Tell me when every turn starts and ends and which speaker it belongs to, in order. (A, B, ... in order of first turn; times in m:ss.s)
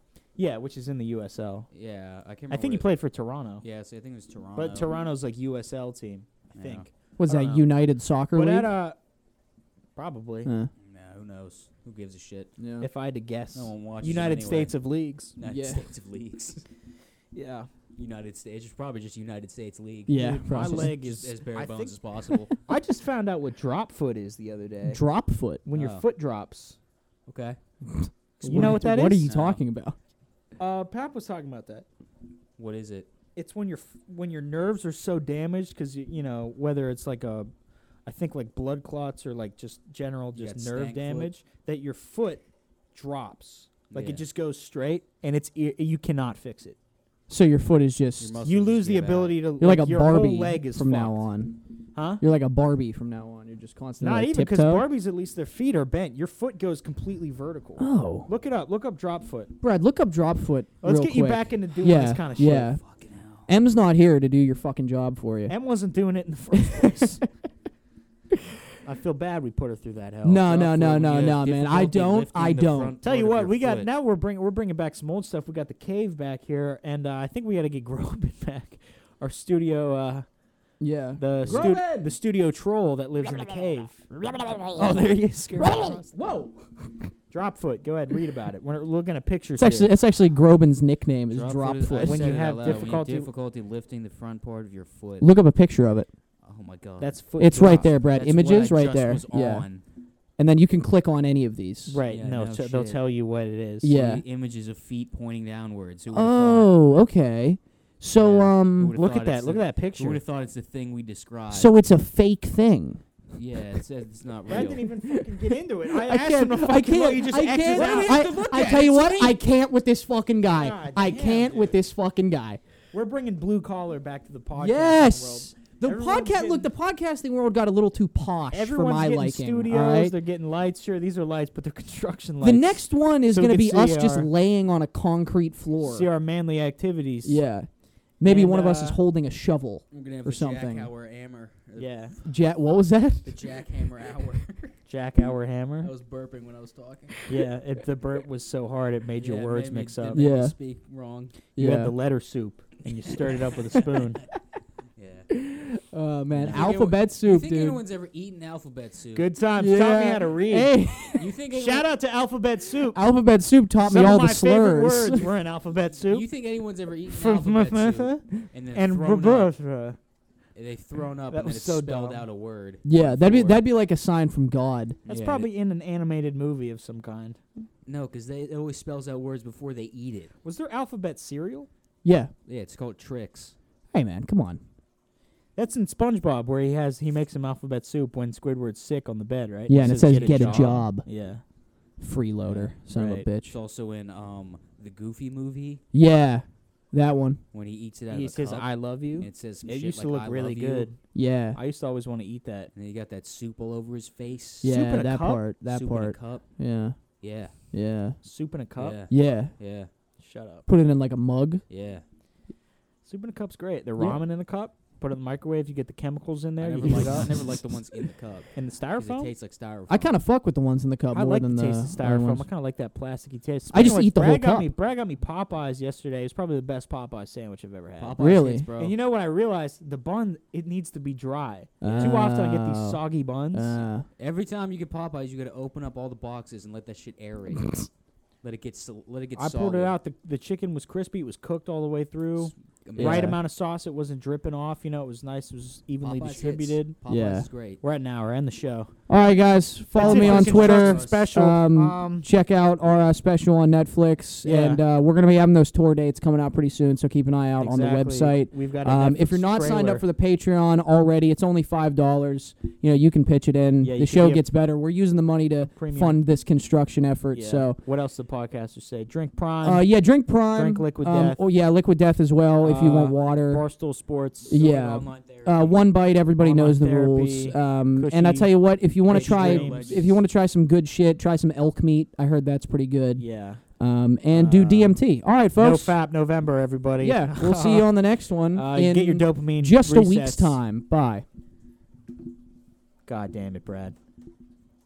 0:00.4-0:01.7 A
0:01.7-0:02.9 B
0:02.5-0:03.6 A
0:03.6-0:04.9 B
0:04.6-0:07.7 A
0:06.5-0:06.9 B
0:07.2-0:08.7 C
0:08.3-0:09.0 A
0:10.0-0:10.5 A
0:10.4-0:10.7 C
0:10.8-0:12.5 B
0:12.6-0:12.9 C
0:12.8-0:15.4 A
0:13.5-0:14.8 B
0:15.4-0:16.7 B
0:15.4-0:15.8 C
0:17.3-0:17.7 A
0:18.0-0:22.6 B
0:20.1-0:20.9 C
0:20.1-0:22.0 A
0:22.5-0:25.0 A
0:24.9-0:25.6 C
0:25.6-0:26.8 A
0:25.7-0:26.0 B
0:27.3-0:27.6 B
0:27.9-0:30.0 C
0:28.4-0:29.3 A
0:28.4-0:29.6 B
0:30.6-0:31.8 A
0:32.6-0:33.1 B
0:33.4-0:37.5 A
0:38.0-0:46.8 A
0:40.3-0:41.3 B
0:43.9-0:44.2 B
0:47.3-0:48.4 C
0:48.2-0:49.4 B
0:48.4-0:51.2 A
0:49.6-0:51.6 C
0:51.9-0:52.2 A
0:52.2-0:54.8 C
0:54.0-0:59.5 A
0:57.8-0:58.3 C
0:59.6-1:02.8 C
1:00.8-1:02.8 A
1:02.6-1:03.5 B
1:03.5-1:05.5 C
1:05.5-1:07.2 A
1:06.5-1:07.1 C
1:08.8-1:10.9 A
1:10.2-1:13.0 C
1:10.6-1:13.9 B
1:13.0-1:20.2 A
1:20.8-1:22.1 C
1:21.2-1:24.1 A
1:21.4-1:21.8 B
1:24.3-1:27.0 C
1:24.7-1:26.2 A
1:27.3-1:29.9 A
1:29.6-1:32.4 C
1:31.3-1:35.3 B
1:32.0-1:33.3 A
1:35.2-1:36.1 C
1:36.4-1:39.8 B
1:37.0-1:37.9 A
1:37.4-1:39.6 C
1:40.4-1:42.0 C
1:41.9-1:43.9 A
1:42.1-1:43.0 B
1:43.8-1:44.2 C
1:43.9-1:46.7 B
1:46.1-1:49.0 C
1:48.2-1:51.7 B
1:48.9-1:50.2 A
1:51.5-1:53.0 C
1:53.3-1:54.9 B
1:54.5-1:58.5 A
1:54.6-1:55.2 C
1:55.9-2:02.6 C
1:57.6-1:59.4 B
2:00.5-2:01.8 A
2:02.9-2:06.7 A
2:04.5-2:10.1 C
2:08.5-2:14.3 A
2:12.4-2:16.1 C
2:15.8-2:17.4 A
2:17.2-2:17.7 C
2:18.2-2:20.9 C
2:18.2-2:19.0 A
2:19.9-2:22.0 B
2:21.8-2:22.1 A
2:22.2-2:23.4 C
2:23.2-2:24.8 B
2:24.9-2:25.9 A
2:25.8-2:27.2 B
2:27.3-2:30.2 A
2:29.2-2:31.3 B
2:30.1-2:30.5 C
2:31.5-2:31.9 C
2:31.6-2:34.2 A
2:35.0-2:35.3 B
2:35.3-2:37.8 C
2:36.3-2:39.3 B
2:39.1-2:40.8 A
2:39.6-2:41.3 C
2:41.2-2:41.9 B
2:41.5-2:43.0 A
2:42.9-2:45.3 C
2:43.8-2:46.2 A
2:46.0-2:49.5 B
2:47.1-2:50.0 A
2:50.5-2:53.6 B
2:51.3-2:52.2 A
2:52.8-2:55.0 C
2:55.0-2:55.5 B
2:55.1-2:57.4 A
2:57.8-3:00.3 B
3:00.4-3:01.7 A
3:02.0-3:02.3 C
3:02.5-3:03.5 B
3:03.9-3:04.6 C
3:05.6-3:11.4 A
3:09.7-3:11.0 C
3:09.8-3:10.9 B
3:12.0-3:13.5 C
3:12.4-3:13.3 A
3:13.4-3:15.8 B
3:15.9-3:17.4 C
3:17.5-3:20.9 B
3:18.1-3:21.0 A
3:21.1-3:21.6 C
3:21.5-3:22.7 A
3:22.7-3:24.7 B
3:24.6-3:27.0 C
3:24.6-3:25.4 A
3:25.7-3:26.5 B
3:27.2-3:27.5 B
3:27.7-3:28.2 C
3:28.2-3:29.0 A
3:28.8-3:29.9 B
3:29.1-3:29.5 C
3:30.2-3:30.7 A
3:30.7-3:31.6 C
3:31.7-3:32.0 B
3:33.0-3:37.5 A
3:36.6-3:40.1 B
3:36.9-3:37.4 C
3:38.5-3:39.3 A
3:39.9-3:42.5 C
3:41.1-3:48.2 A
3:43.7-3:44.7 C
3:48.0-3:49.0 B
3:48.2-3:48.7 C
3:48.8-3:53.8 A
3:51.8-3:53.0 C
3:51.8-3:52.2 B
3:53.5-3:54.0 C
3:54.2-3:57.8 B
3:57.6-3:57.8 C
3:58.4-3:59.9 B
3:59.4-4:06.9 A
4:02.4-4:03.4 B
4:03.0-4:03.4 C
4:06.0-4:07.8 B
4:07.1-4:07.5 C
4:07.8-4:08.9 A
4:09.1-4:27.8 C
4:10.0-4:11.3 B
4:10.0-4:12.3 A
4:14.4-4:14.8 A
4:17.6-4:20.0 A
4:23.8-4:24.4 A
4:25.7-4:26.2 A
4:27.3-4:29.9 A
4:29.6-4:33.6 C
4:30.5-4:31.4 A
4:32.6-4:34.6 A
4:34.5-4:43.2 C
4:34.5-4:35.8 B
4:36.4-4:40.1 A
4:39.1-4:40.2 B
4:43.2-4:43.6 A
4:43.8-4:46.0 C
4:44.3-4:45.0 A
4:45.6-4:48.0 A
4:47.0-4:51.2 C
4:48.5-4:50.6 A
4:53.0-4:54.0 A